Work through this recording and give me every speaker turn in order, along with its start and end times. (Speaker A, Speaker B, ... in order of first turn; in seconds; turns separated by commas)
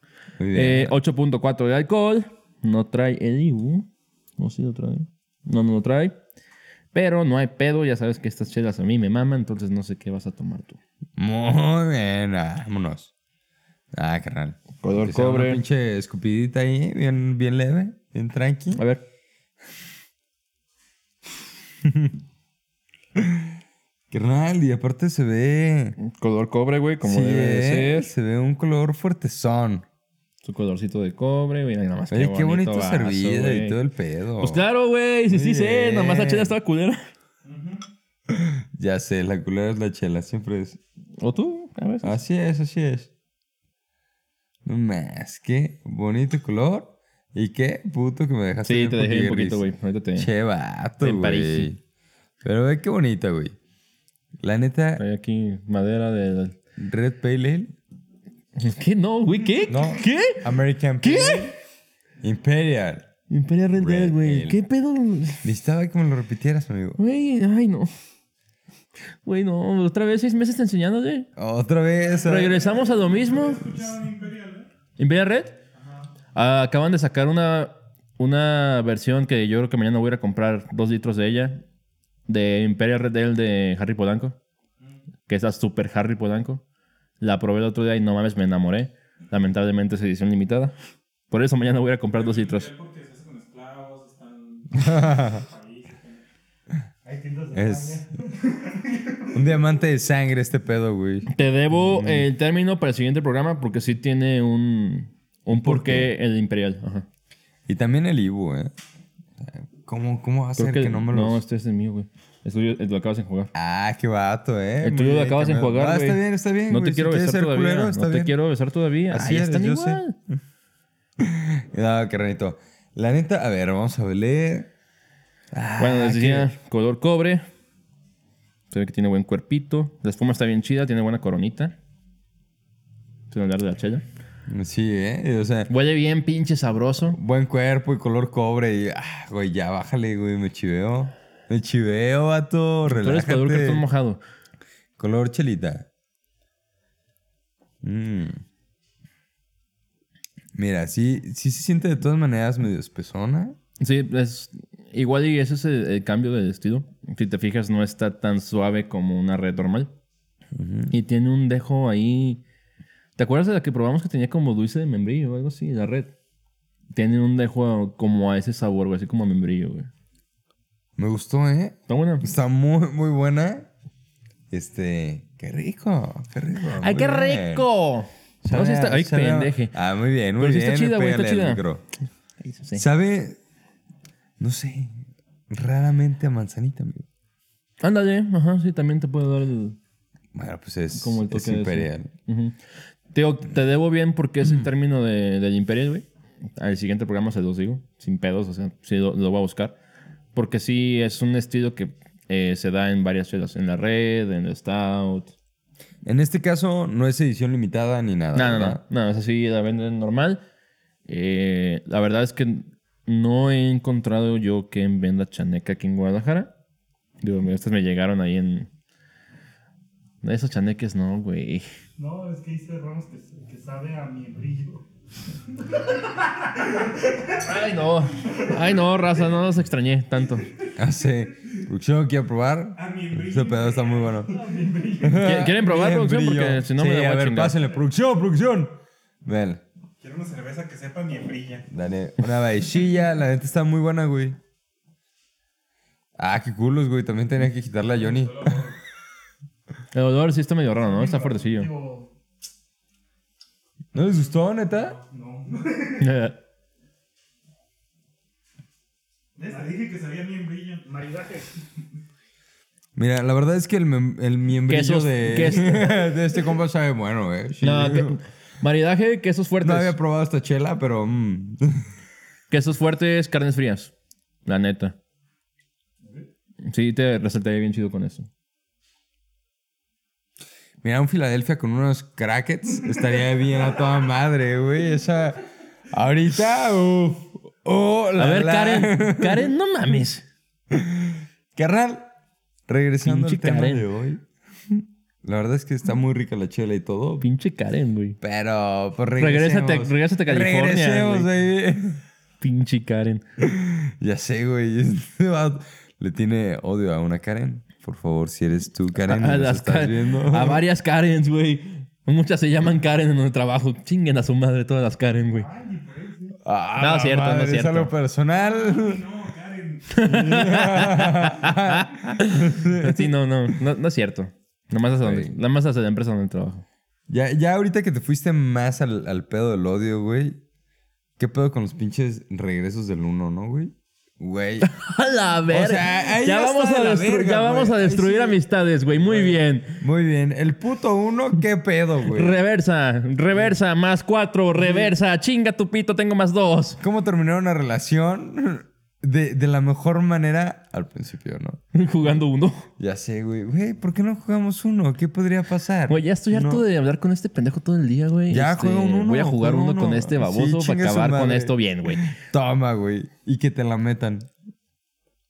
Speaker A: 0.4-0.9, Speaker B: 0.5-6.1, Speaker B: 6.9-10.8, Speaker A: 11.2-13.1, Speaker A: 13.9-18.8, Speaker B: 14.8-15.6, Speaker B: 18.8-19.0, Speaker A: 21.8-22.1, Speaker A: 23.2-23.5, Speaker A: 24.1-26.0, Speaker B: 26.0-28.1, Speaker A: 27.0-29.9, Speaker B: 30.4-33.8, Speaker A: 32.1-34.6, Speaker B: 34.4-37.0, Speaker A: 35.3-36.5, Speaker C: 37.4-37.9, Speaker A: 38.3-40.8, Speaker B: 41.2-42.1, Speaker A: 42.0-43.1, Speaker A: 44.6-49.6, Speaker B: 48.6-50.3, Speaker A: 50.2-51.8, Speaker B: 51.0-51.7, Speaker A: 52.4-53.5, Speaker A: 54.4-55.0, Speaker B: 55.0-56.6, Speaker A: 56.8-57.8, Speaker B: 58.6-60.5, Speaker A: 59.7-61.5, Speaker B: 61.0-61.5, Speaker A: 62.2-63.1, Speaker B: 63.3-65.4, Speaker A: 63.8-64.6, Speaker A: 65.4-67.0, Speaker B: 67.0-67.9, Speaker B: 69.2-71.3, Speaker A: 71.4-72.7, Speaker B: 72.2-73.6, Speaker C: 72.5-74.7, Speaker B: 75.0-75.5, Speaker C: 75.8-76.1, Speaker B: 76.3-81.6, Speaker B: 82.3-84.4, Speaker B: 85.3-86.6, Speaker B: 87.2-90.8, Speaker B: 91.3-92.7, Speaker C: 92.1-96.2, Speaker A: 94.8-95.4, Speaker D: 97.0-99.3, Speaker A: 97.5-98.0, Speaker A: 99.3-102.3, Speaker B: 101.3-107.1, Speaker A: 105.5-106.1, Speaker A: 107.7-108.7, Speaker A: 109.4-111.4, Speaker B: 110.6-113.5, Speaker A: 113.5-118.3, Speaker B: 114.8-120.1, Speaker A: 119.1-120.0, Speaker A: 121.2-124.7, Speaker A: 125.5-126.5, Speaker B: 125.8-127.5, Speaker B: 128.7-131.8, Speaker B: 133.3-134.0, Speaker A: 134.5-135.7, Speaker B: 135.7-137.2, Speaker A: 137.1-143.8, Speaker B: 142.9-144.2, Speaker A: 145.0-145.9, Speaker A: 147.8-148.4, Speaker A: 150.6-153.6, Speaker B: 153.8-159.9, Speaker A: 160.6-160.9, Speaker B: 160.9-162.4, Speaker B: 163.2-166.1, Speaker B: 166.9-169.9, Speaker A: 171.0-173.7, Speaker B: 171.9-172.2, Speaker A: 174.5-177.7, Speaker B: 176.8-179.7, Speaker A: 178.4-181.8, Speaker B: 180.4-181.6, Speaker B: 182.4-182.8, Speaker A: 182.8-183.4, Speaker A: 184.4-187.1, Speaker B: 187.8-189.8, Speaker A: 190.3-192.1, Speaker B: 190.9-192.6, Speaker B: 193.1-196.1, Speaker B: 196.6-199.8, Speaker B: 200.3-205.3, Speaker A: 206.1-208.8, Speaker B: 208.3-210.4, Speaker B: 211.1-216.5, Speaker B: 217.2-218.7, Speaker B: 220.2-221.6, Speaker D: 222.0-224.8, Speaker D: 225.6-227.3, Speaker B: 227.4-230.5, Speaker A: 230.8-234.3, Speaker C: 232.8-235.2, Speaker D: 234.2-235.4, Speaker A: 235.0-239.6, Speaker B: 235.2-237.6, Speaker C: 240.0-241.7, Speaker A: 241.7-244.4, Speaker A: 246.2-248.7, Speaker C: 248.3-248.7, Speaker B: 249.9-251.7, Speaker D: 250.8-252.1, Speaker A: 253.9-255.0, Speaker C: 254.7-255.6, Speaker D: 255.2-256.0, Speaker B: 256.0-256.4, Speaker C: 259.4-260.9, Speaker D: 259.4-259.8, Speaker D: 260.8-261.5, Speaker A: 262.9-268.2, Speaker B: 264.7-265.9, Speaker D: 265.7-265.9, Speaker B: 267.6-269.9, Speaker A: 269.6-271.8, Speaker B: 272.5-273.9, Speaker B: 274.5-274.9, Speaker B: 276.7-278.3, Speaker A: 280.8-289.5, Speaker B: 288.2-290.3, Speaker A: 290.7-292.1, Speaker A: 292.7-297.2, Speaker B: 293.0-293.9, Speaker B: 297.2-298.2, Speaker A: 298.2-302.0, Speaker B: 299.2-301.3, Speaker B: 302.4-303.2, Speaker A: 303.4-310.6, Speaker B: 309.0-315.5, Speaker D: 315.3-316.4, Speaker A: 316.4-319.0, Speaker B: 316.8-317.9, Speaker C: 318.3-320.6, Speaker B: 319.9-326.6, Speaker A: 320.0-323.1, Speaker A: 325.0-325.3, Speaker A: 327.1-330.4, Speaker A: 331.2-334.7, Speaker B: 334.6-339.8, Speaker A: 335.5-338.4, Speaker A: 338.9-342.4, Speaker B: 342.1-346.8, Speaker A: 344.6-344.9, Speaker A: 346.8-351.6, Speaker B: 351.7-352.7, Speaker A: 352.8-356.6, Speaker B: 355.9-362.1, Speaker A: 358.3-364.3